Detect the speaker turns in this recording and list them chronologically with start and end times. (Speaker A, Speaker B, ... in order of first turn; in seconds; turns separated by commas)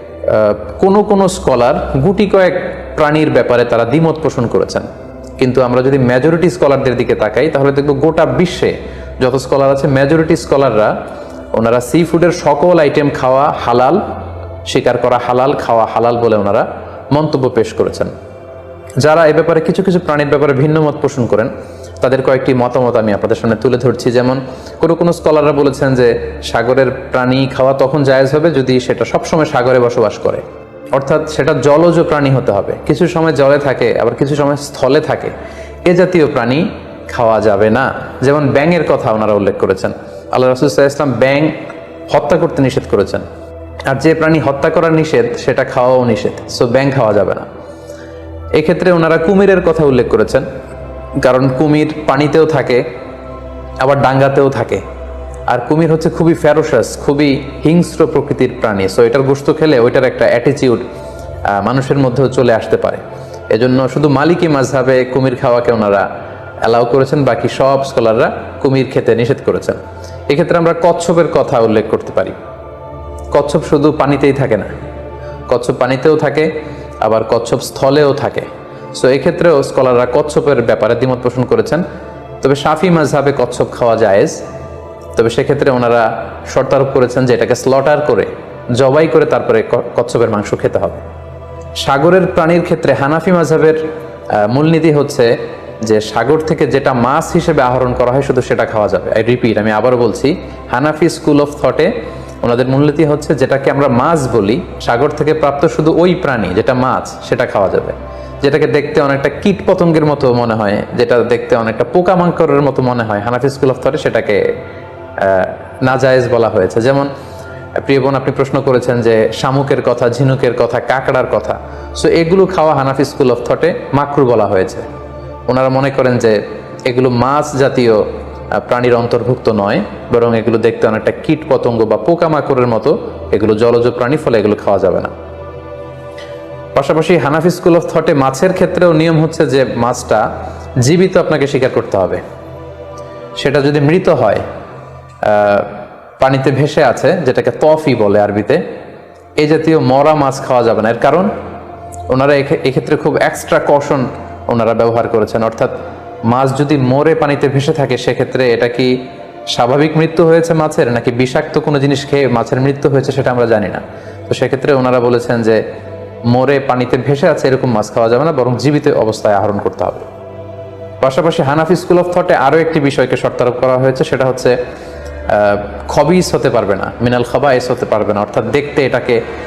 Speaker A: 0.2-4.9, Speaker A: 5.4-10.9, Speaker A: 11.5-14.0, Speaker A: 14.7-18.1, Speaker A: 19.0-30.4, Speaker A: 30.9-35.3, Speaker A: 35.9-41.5, Speaker A: 42.1-43.3, Speaker A: 43.9-47.5, Speaker A: 48.6-50.5, Speaker A: 51.2-52.9, Speaker A: 53.8-54.8, Speaker A: 55.5-60.9, Speaker A: 61.5-66.1, Speaker A: 66.7-72.4, Speaker A: 73.3-74.7, Speaker A: 75.5-81.8, Speaker A: 82.4-84.4, Speaker A: 85.2-91.0, Speaker A: 91.8-93.8, Speaker A: 94.3-95.3, Speaker A: 95.8-101.9, Speaker A: 102.4-114.5, Speaker A: 115.2-117.1, Speaker A: 117.8-124.9, Speaker A: 125.5-128.0, Speaker A: 128.5-135.1, Speaker A: 136.8-140.2, Speaker A: 140.8-142.2, Speaker A: 143.4-144.4, Speaker A: 145.2-148.6, Speaker A: 149.4-151.3, Speaker A: 152.1-155.8, Speaker A: 156.3-159.0, Speaker A: 159.5-165.6, Speaker A: 166.3-170.1, Speaker A: 171.0-174.6, Speaker A: 175.3-179.2